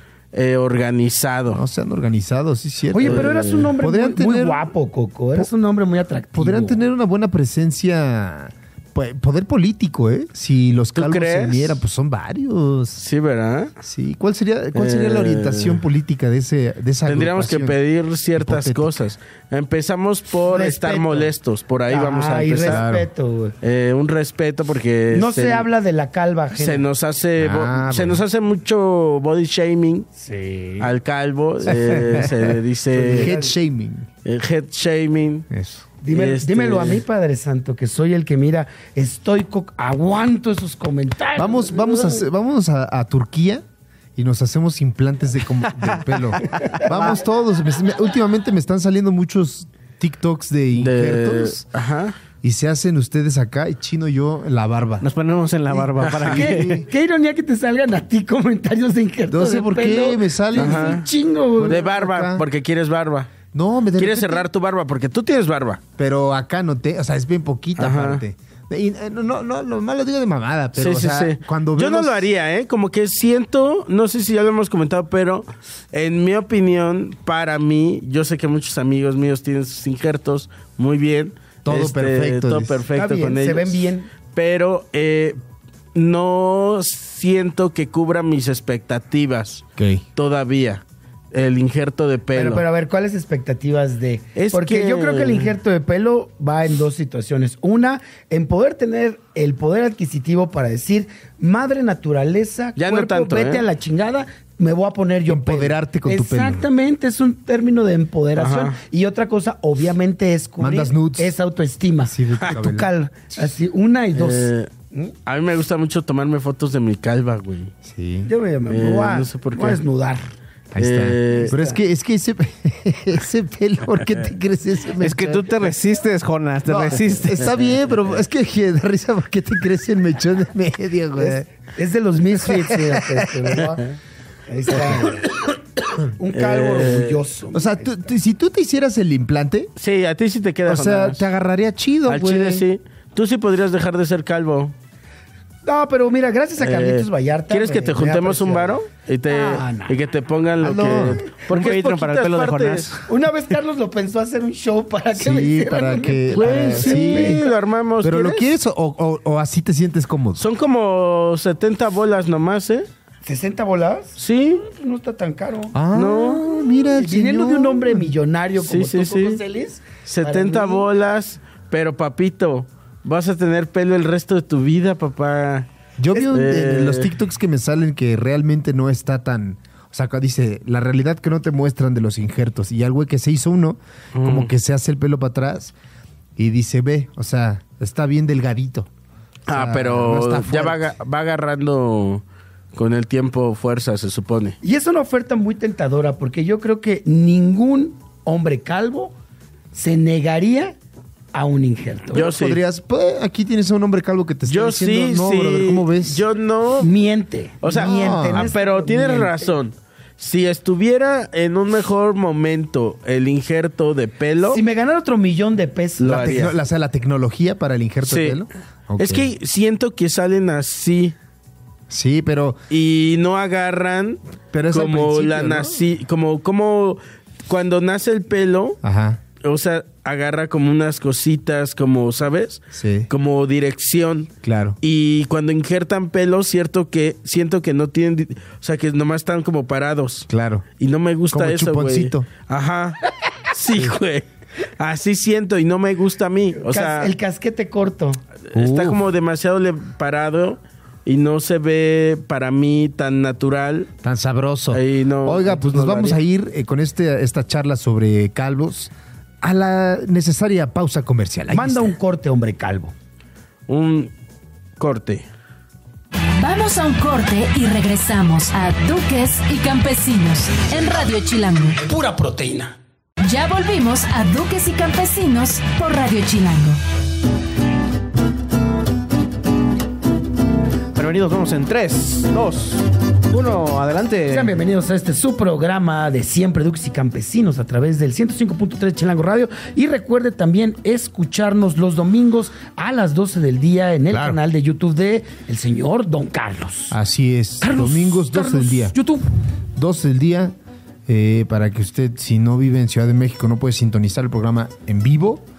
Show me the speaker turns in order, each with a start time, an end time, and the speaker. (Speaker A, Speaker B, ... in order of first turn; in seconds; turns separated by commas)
Speaker A: 0.3-1.6, Speaker B: 1.5-4.7, Speaker C: 2.9-6.9, Speaker A: 3.0-3.7, Speaker B: 6.3-13.0, Speaker A: 10.9-11.8, Speaker A: 13.0-13.7, Speaker B: 13.8-17.8, Speaker A: 14.8-15.8, Speaker A: 17.1-22.8, Speaker B: 18.4-19.1, Speaker C: 20.5-21.3, Speaker C: 21.9-23.6, Speaker B: 22.6-23.1, Speaker A: 23.6-25.7, Speaker C: 25.1-26.8, Speaker A: 26.5-30.1, Speaker B: 27.4-28.2, Speaker C: 30.2-30.9, Speaker A: 30.8-33.3, Speaker B: 31.6-32.6, Speaker C: 32.9-33.5, Speaker B: 33.1-34.1, Speaker A: 34.2-35.5, Speaker B: 35.5-35.9, Speaker C: 36.0-42.3, Speaker A: 36.1-37.0, Speaker B: 41.4-43.6, Speaker B: 44.2-51.6, Speaker D: 45.8-46.5, Speaker C: 46.6-47.2, Speaker A: 50.8-52.2, Speaker B: 52.4-55.1, Speaker D: 55.0-56.8, Speaker B: 55.7-56.9, Speaker A: 56.0-56.4, Speaker C: 56.3-61.9, Speaker B: 59.3-61.0, Speaker A: 60.5-61.1, Speaker B: 61.5-62.5, Speaker A: 61.6-63.3, Speaker B: 63.5-64.5, Speaker A: 64.0-65.8, Speaker B: 66.0-72.3, Speaker A: 67.8-68.2, Speaker A: 70.8-85.4, Speaker B: 81.7-82.8, Speaker C: 82.9-84.1, Speaker A: 86.0-89.7, Speaker B: 89.8-90.0, Speaker A: 90.2-90.8, Speaker A: 91.3-92.7, Speaker C: 92.3-115.2, Speaker A: 94.3-95.5, Speaker A: 102.8-103.6, Speaker B: 105.3-106.7, Speaker A: 108.4-108.8, Speaker B: 110.6-111.3, Speaker B: 112.1-112.9, Speaker A: 114.2-114.7, Speaker A: 115.3-117.7, Speaker B: 117.8-118.3, Speaker C: 118.3-120.3, Speaker A: 118.7-119.8, Speaker B: 120.7-125.5, Speaker A: 120.8-121.5, Speaker C: 121.4-121.8, Speaker D: 125.0-127.5, Speaker B: 126.7-131.5, Speaker C: 131.2-133.9, Speaker B: 132.4-133.6, Speaker C: 134.5-135.5, Speaker C: 136.2-137.9, Speaker A: 136.3-137.2, Speaker B: 137.5-139.7, Speaker A: 139.8-141.3, Speaker B: 140.7-142.7, Speaker A: 142.1-144.7, Speaker C: 145.7-150.0, Speaker A: 146.6-152.9, Speaker B: 150.6-151.2, Speaker D: 151.5-153.0, Speaker C: 153.1-157.5, Speaker B: 155.2-160.5, Speaker A: 156.3-158.5, Speaker A: 160.4-162.9, Speaker C: 163.2-165.8, Speaker A: 164.2-164.7, Speaker B: 165.7-168.1, Speaker A: 165.9-166.5, Speaker C: 166.9-170.9, Speaker A: 168.6-169.4, Speaker A: 170.1-175.7, Speaker B: 176.0-185.7, Speaker A: 176.3-177.1, Speaker A: 184.2-184.5, Speaker B: 186.4-188.9, Speaker A: 189.5-192.2, Speaker B: 189.5-190.9, Speaker A: 192.7-194.6, Speaker C: 194.6-199.2, Speaker C: 199.7-200.8, Speaker C: 201.3-202.3, Speaker A: 202.1-202.6, Speaker B: 202.1-206.2, Speaker A: 204.5-206.9, Speaker C: 206.8-209.5, Speaker A: 207.6-214.6, Speaker B: 207.7-208.5, Speaker C: 214.4-216.5, Speaker A: 216.0-216.6, Speaker B: 216.1-219.3, Speaker A: 218.0-218.4, Speaker A: 219.0-221.2, Speaker B: 221.9-222.6, Speaker A: 222.7-224.2, Speaker B: 224.5-225.8, Speaker A: 224.7-228.8, Speaker B: 228.8-229.2, Speaker A: 229.4-240.3, Speaker B: 232.7-233.1, Speaker B: 234.4-234.8, Speaker B: 240.3-240.7, Speaker A: 240.8-243.0, Speaker B: 241.3-242.3, Speaker A: 243.5-244.2, Speaker A: 244.8-247.1, Speaker C: 246.6-248.2, Speaker A: 248.5-253.9, Speaker B: 248.5-249.1, Speaker B: 254.0-261.9, Speaker A: 254.7-256.2, Speaker C: 261.5-262.9, Speaker A: 263.7-264.1, Speaker A: 264.8-265.3, Speaker E: 266.4-271.8, Speaker C: 271.8-272.8, Speaker E: 273.2-276.8, Speaker D: 280.9-284.6, Speaker C: 284.3-297.0, Speaker B: 294.1-294.4, Speaker B: 296.9-299.0, Speaker C: 297.6-299.2, Speaker B: 299.8-300.6, Speaker B: 301.1-305.4